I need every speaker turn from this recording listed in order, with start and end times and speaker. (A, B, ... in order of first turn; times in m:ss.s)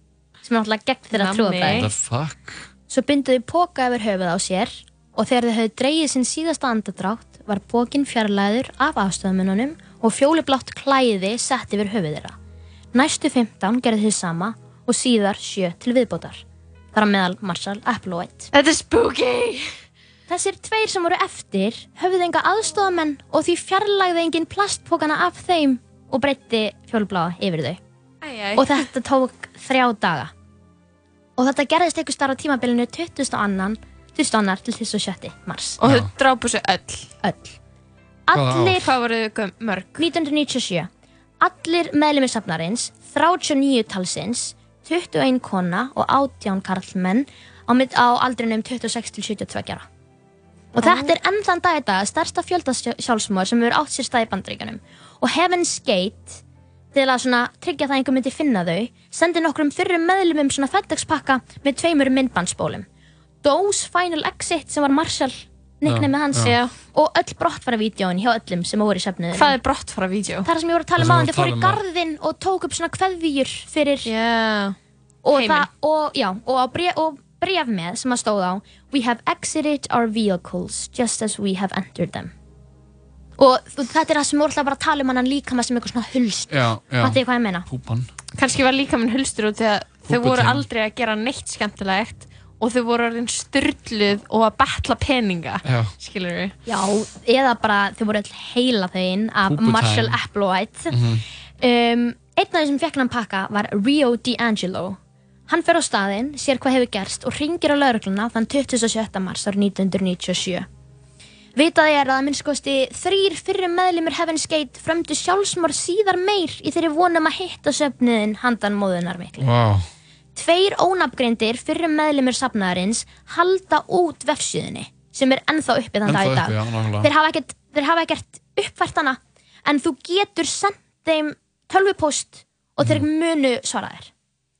0:00.4-0:01.9 A
0:01.1-0:01.9 B
0:01.6-0:02.7 C
0:02.9-0:12.4 A
0:12.9-0:16.4 A
0:16.9-0:18.5 A
0:18.5-0:19.8 B
0:20.3-0:27.8 A
0:28.2-0:28.9 B
0:28.6-0:30.3 A
0:31.4-0:35.8 A
0:35.8-0:37.1 B
0:35.8-0:36.1 C
0:37.2-0:37.6 A
0:38.3-0:38.9 A
0:38.3-0:38.9 C
0:38.6-0:40.1 B
0:40.0-0:40.9 A
0:41.4-0:49.8 A
0:50.7-0:56.4 A
0:50.8-0:51.1 B
0:56.9-1:02.8 A
1:03.4-1:09.5 A
1:05.8-1:06.6 C
1:06.4-1:06.8 B
1:09.3-1:10.5 B
1:10.4-1:14.1 A
1:11.0-1:11.8 C
1:14.0-1:14.8 B
1:15.2-1:22.3 A
1:15.3-1:15.7 B
1:23.4-1:27.7 A
1:26.5-1:28.1 C
1:28.4-1:36.5 B
1:30.0-1:30.6 C
1:35.6-1:35.9 C
1:36.6-1:41.0 A
1:39.4-1:40.2 C
1:40.9-1:41.2 C
1:41.6-1:50.7 A
1:51.6-1:59.4 A
1:59.4-1:59.9 C
2:00.3-2:14.1 A
2:06.0-2:07.1 C